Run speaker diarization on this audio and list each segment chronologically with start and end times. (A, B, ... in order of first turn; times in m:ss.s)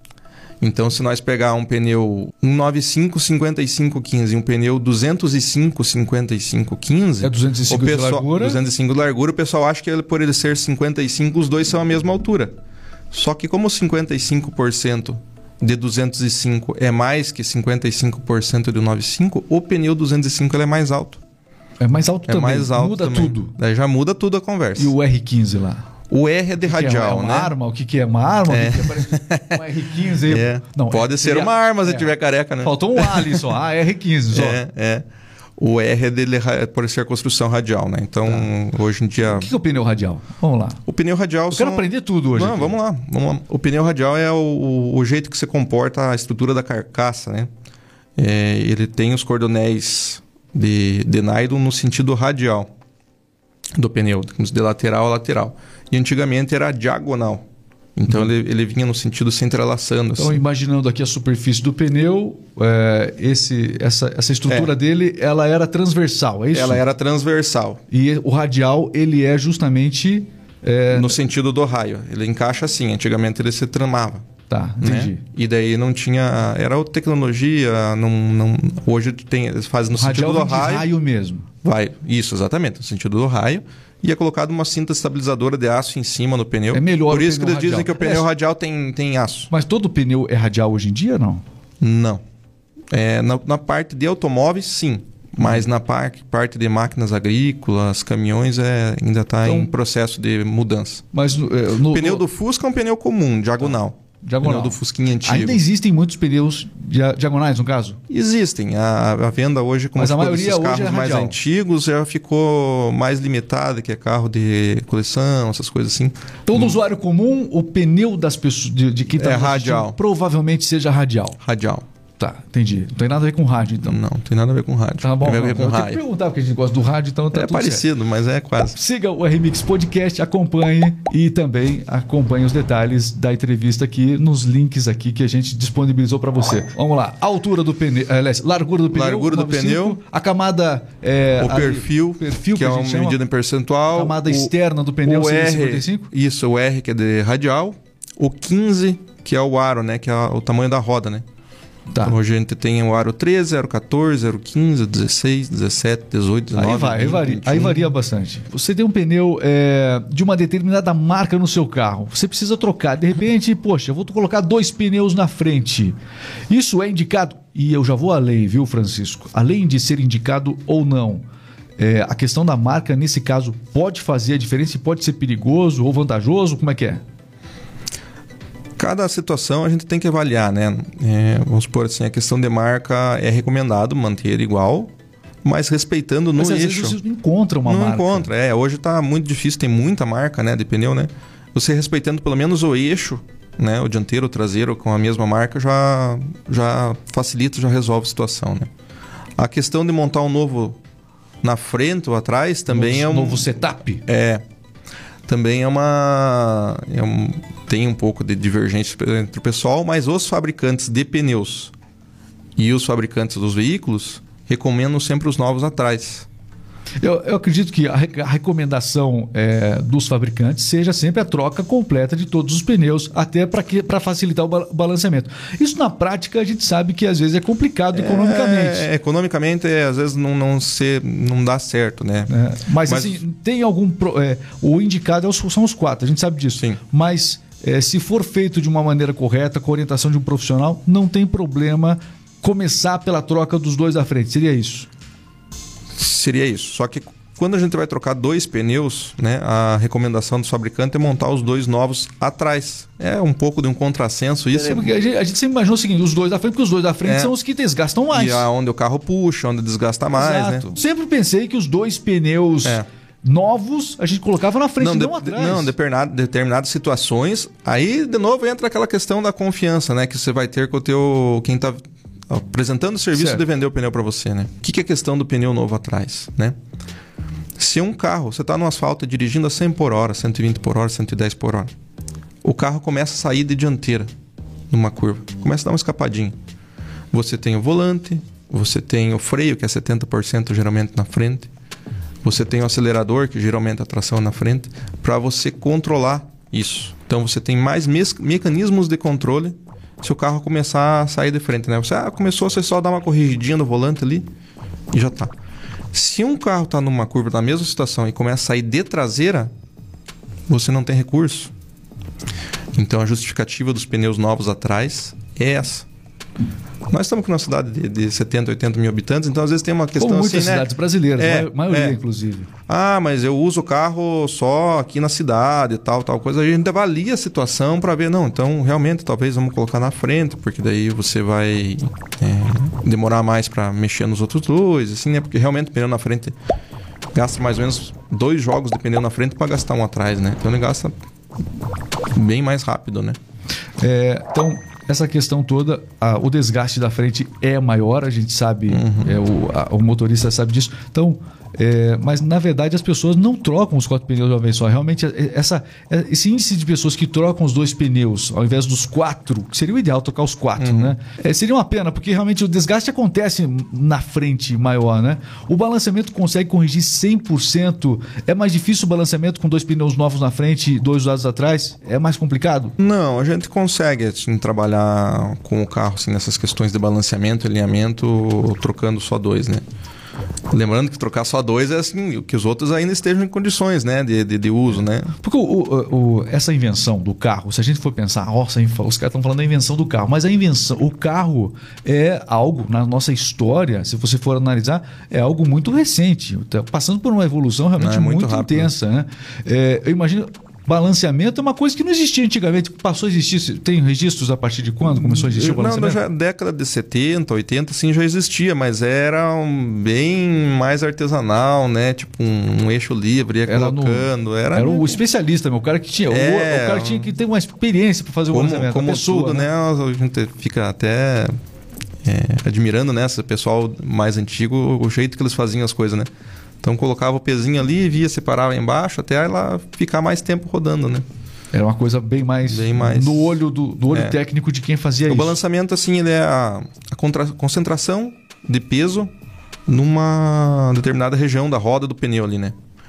0:00.6-0:12.5 A
0:07.2-0:08.6 B
0:13.1-0:21.2 A
0:21.8-0:23.5 B
0:22.3-0:24.9 A
0:24.8-0:25.9 B
0:26.1-0:27.5 A
0:26.6-0:32.1 B
0:28.5-0:29.6 A
0:30.2-0:33.4 A
0:32.6-0:34.6 B
0:34.3-0:35.0 A
0:35.6-0:39.5 A
0:39.3-0:40.8 B
0:40.8-0:47.5 A
0:41.5-0:42.8 B
0:48.2-0:52.7 A
0:53.8-0:57.4 A
0:58.0-1:00.4 A
1:00.2-1:06.8 B
1:06.5-1:07.8 A
1:07.9-1:11.2 B
1:10.9-1:14.2 A
1:14.5-1:15.2 B
1:14.8-1:20.8 A
1:19.9-1:21.5 B
1:21.6-1:29.5 A
1:26.7-1:28.2 B
1:29.5-1:31.4 B
1:31.8-1:32.2 A
1:32.9-1:41.0 A
1:39.4-1:39.7 B
1:41.1-1:42.2 B
1:41.9-1:45.6 A
1:44.2-1:48.0 B
1:48.1-1:56.8 A
1:50.0-1:51.4 B
1:56.5-2:01.4 B
1:59.2-2:00.0 A
2:01.4-2:01.8 A
2:02.2-2:04.0 B
2:03.8-2:06.0 A
2:05.0-2:07.8 B
2:07.3-2:08.8 A
2:08.7-2:23.2 B
2:18.9-2:20.0 A
2:21.4-2:24.5 A
2:23.9-2:26.1 B
2:25.0-2:31.2 A
2:31.9-2:32.2 B
2:32.0-2:37.9 A
2:36.6-2:46.0 B
2:46.5-2:51.2 B
2:51.8-2:57.0 B
2:58.8-3:04.9 A
3:05.4-3:07.0 A
3:06.4-3:08.3 B
3:07.6-3:18.7 A
3:19.4-3:20.8 A
3:21.4-3:23.5 A
3:22.7-3:24.0 B
3:24.0-3:24.4 A
3:25.3-3:31.7 A
3:32.6-3:36.3 A
3:37.0-3:48.8 B
3:47.9-3:52.3 A
3:52.3-4:04.9 B
3:52.8-3:53.2 A
4:05.9-4:14.9 A
4:14.5-4:18.5 B
4:17.0-4:17.3 A
4:18.1-4:20.6 A
4:20.1-4:25.7 B
4:24.8-4:36.6 A
4:33.2-4:33.4 B
4:37.6-4:41.7 A
4:42.4-4:44.1 A
4:44.7-4:46.3 A
4:47.1-4:51.5 A
4:52.2-5:04.2 A
5:04.9-5:05.3 A
5:05.9-5:09.5 A
5:10.5-5:11.5 A
5:12.7-5:15.8 A
5:16.9-5:22.0 A
5:20.0-5:22.5 B
5:22.7-5:36.3 A
5:37.1-5:40.9 A
5:42.1-5:43.2 A
5:43.8-6:12.8 B
5:48.7-5:49.2 A
6:00.6-6:00.9 A
6:12.8-6:19.6 A
6:20.5-6:25.1 A
6:25.2-6:46.0 B
6:37.8-6:38.7 A
6:45.0-6:55.0 A
6:53.4-6:59.5 B
6:56.1-6:57.1 A
6:58.3-7:01.3 A
7:02.0-7:06.1 A
7:06.6-7:11.0 A
7:11.5-7:15.4 B
7:12.5-7:13.4 A
7:13.9-7:14.2 A
7:15.1-7:19.1 A
7:19.7-7:22.6 A